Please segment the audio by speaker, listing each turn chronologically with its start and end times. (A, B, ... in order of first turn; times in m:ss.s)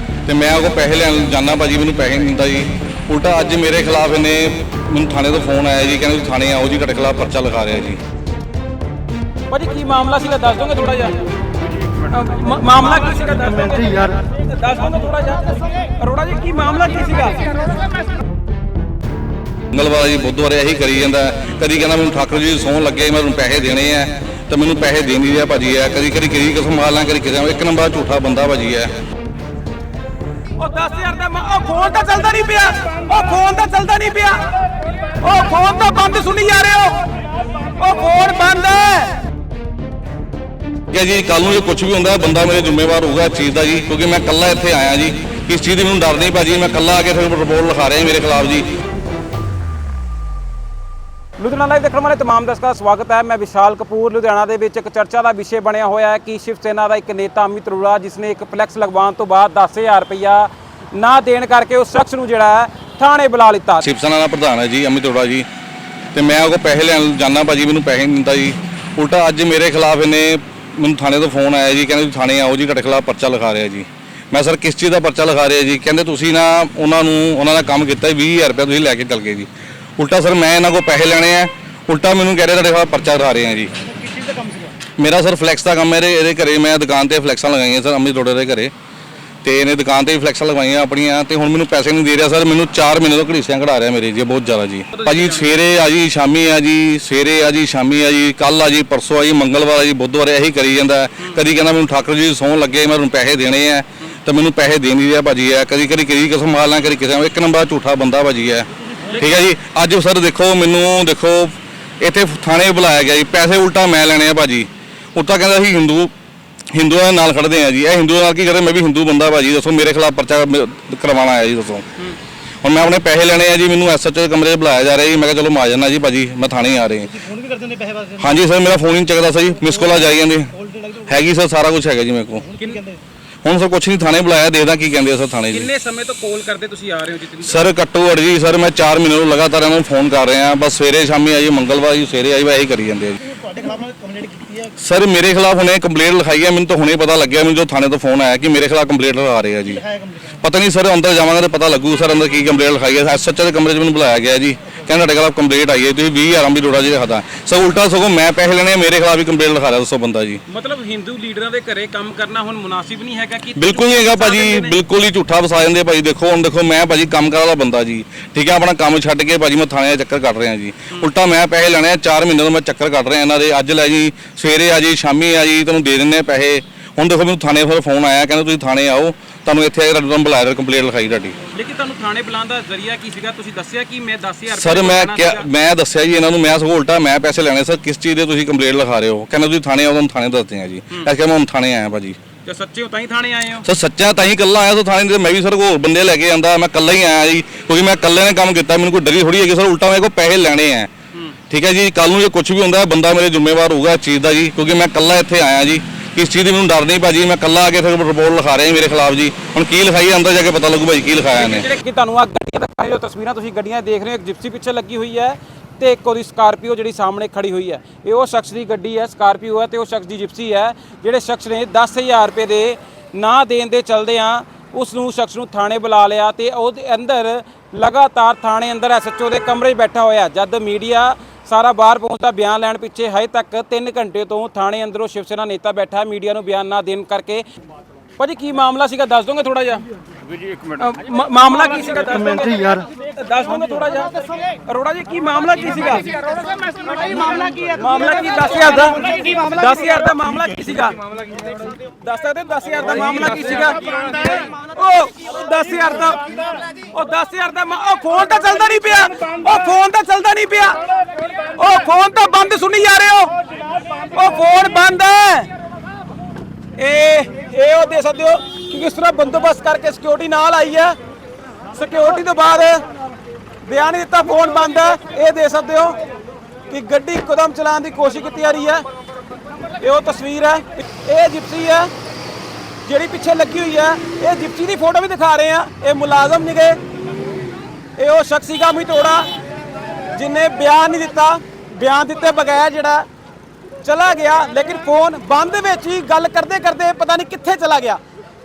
0:00.2-0:08.0 A
0:09.5-0:11.3 B
0:12.0-0:17.6 B
0:19.7-0:28.9 A
0:30.6-0:34.6 B
0:35.2-0:39.2 B
0:40.9-0:48.7 A
0:51.4-1:03.8 B
1:03.8-1:05.5 A
1:06.1-1:23.7 A
1:24.0-1:24.7 C
1:25.0-1:28.7 A
1:29.4-1:56.1 A
1:34.9-1:35.6 B
1:49.1-1:49.4 B
1:56.7-2:02.0 A
2:02.6-2:07.3 A
2:07.2-2:08.2 C
2:08.2-2:12.6 A
2:10.7-2:11.0 C
2:12.6-2:12.8 B
2:12.6-2:13.0 C
2:13.4-2:15.7 A
2:15.5-2:17.7 B
2:17.4-2:23.4 A
2:23.4-2:24.7 C
2:24.7-2:40.4 A
2:40.5-2:44.8 B
2:43.6-3:01.4 A
3:01.5-3:05.5 B
3:04.5-3:12.2 A
3:12.4-3:13.7 B
3:13.6-3:20.9 A
3:21.5-3:31.7 A
3:31.3-3:57.4 B
3:58.2-3:59.8 B
4:00.6-4:06.4 B
4:07.1-4:11.0 B
4:12.0-4:23.4 B
4:23.9-4:25.5 B
4:26.8-4:31.0 B
4:31.7-4:32.8 B
4:33.6-4:36.0 B
4:36.7-4:38.8 B
4:39.8-4:41.9 B
4:42.8-4:46.8 B
4:48.0-4:49.3 B
4:50.1-4:53.1 B
4:53.8-4:58.0 B